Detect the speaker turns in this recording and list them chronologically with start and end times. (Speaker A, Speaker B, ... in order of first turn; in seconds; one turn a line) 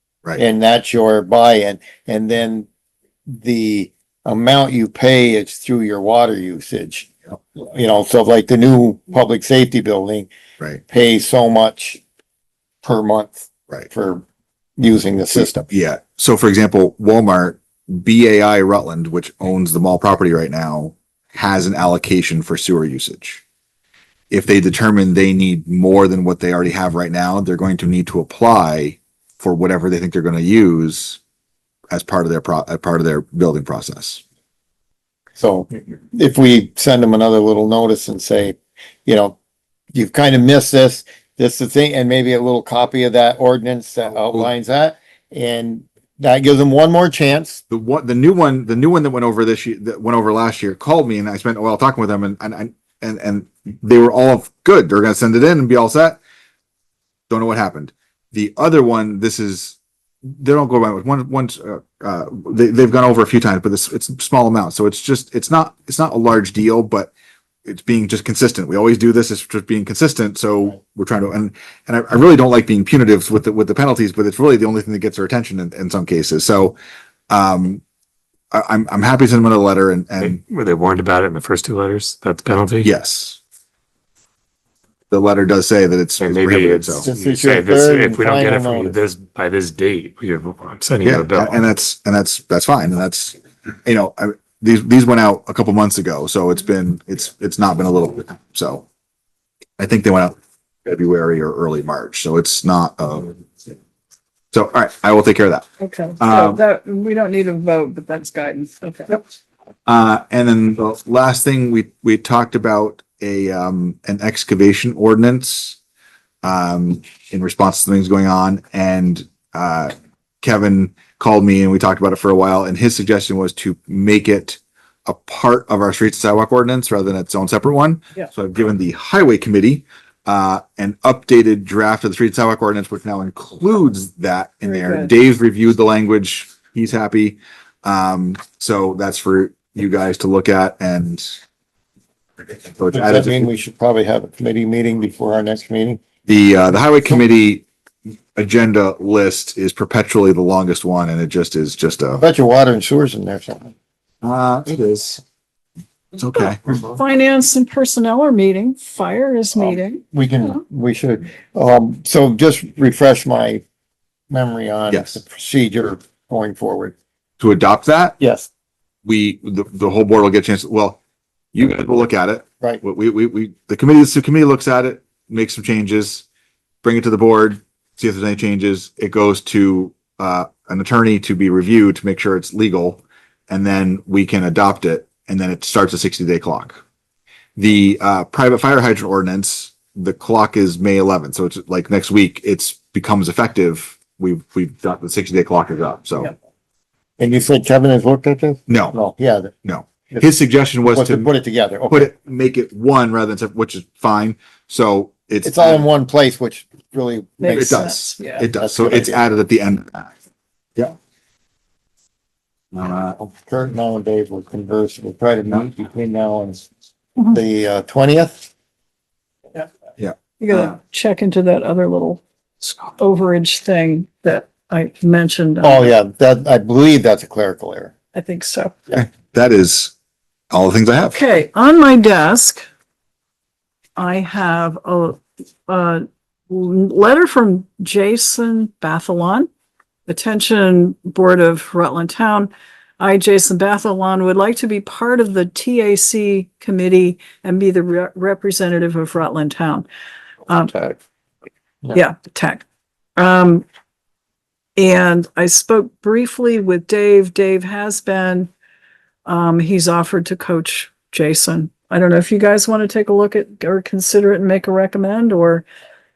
Speaker A: 0.4-2.7
Speaker A: 3.3-10.3
Speaker A: 10.9-12.0
Speaker A: 12.8-14.2
Speaker A: 14.8-15.7
Speaker B: 15.4-23.4
Speaker B: 24.3-31.2
Speaker B: 31.9-34.2
Speaker A: 35.4-39.4
Speaker A: 39.9-47.6
Speaker B: 44.1-44.5
Speaker B: 47.7-56.2
Speaker B: 57.3-67.1
Speaker B: 67.7-76.8
Speaker B: 77.3-77.8
Speaker B: 78.5-80.4
Speaker C: 80.2-82.9
Speaker B: 82.8-83.4
Speaker B: 85.1-87.1
Speaker C: 86.2-91.7
Speaker A: 87.0-89.0
Speaker B: 91.0-98.8
Speaker B: 99.8-103.4
Speaker B: 104.5-105.7
Speaker D: 105.8-109.2
Speaker B: 106.2-106.6
Speaker B: 109.9-115.8
Speaker B: 116.4-141.4
Speaker D: 134.6-135.1
Speaker B: 142.7-143.5
Speaker A: 142.9-146.0
Speaker B: 146.3-147.7
Speaker B: 148.3-152.2
Speaker A: 152.2-153.7
Speaker B: 154.2-155.2
Speaker B: 156.2-156.8
Speaker D: 157.0-160.0
Speaker A: 159.6-163.6
Speaker A: 164.3-166.9
Speaker B: 164.9-165.2
Speaker B: 167.4-168.2
Speaker A: 168.2-168.5
Speaker B: 169.1-171.0
Speaker B: 171.5-176.2
Speaker B: 176.8-186.8
Speaker B: 187.6-196.3
Speaker A: 197.2-199.5
Speaker B: 198.7-199.0
Speaker B: 199.6-201.3
Speaker A: 200.9-202.1
Speaker B: 201.9-205.9
Speaker A: 205.4-207.9
Speaker D: 207.4-208.5
Speaker B: 207.5-210.1
Speaker A: 208.6-209.2
Speaker B: 212.7-213.2
Speaker A: 213.2-216.6
Speaker A: 217.3-218.5
Speaker D: 220.4-225.9
Speaker A: 225.6-227.9
Speaker D: 228.2-228.8
Speaker B: 228.9-229.9
Speaker B: 230.5-231.2
Speaker D: 231.1-232.7
Speaker D: 234.0-239.5
Speaker D: 240.1-249.9
Speaker D: 250.5-250.9
Speaker D: 251.9-252.7
Speaker D: 253.2-253.7
Speaker D: 254.8-258.5
Speaker D: 259.3-265.6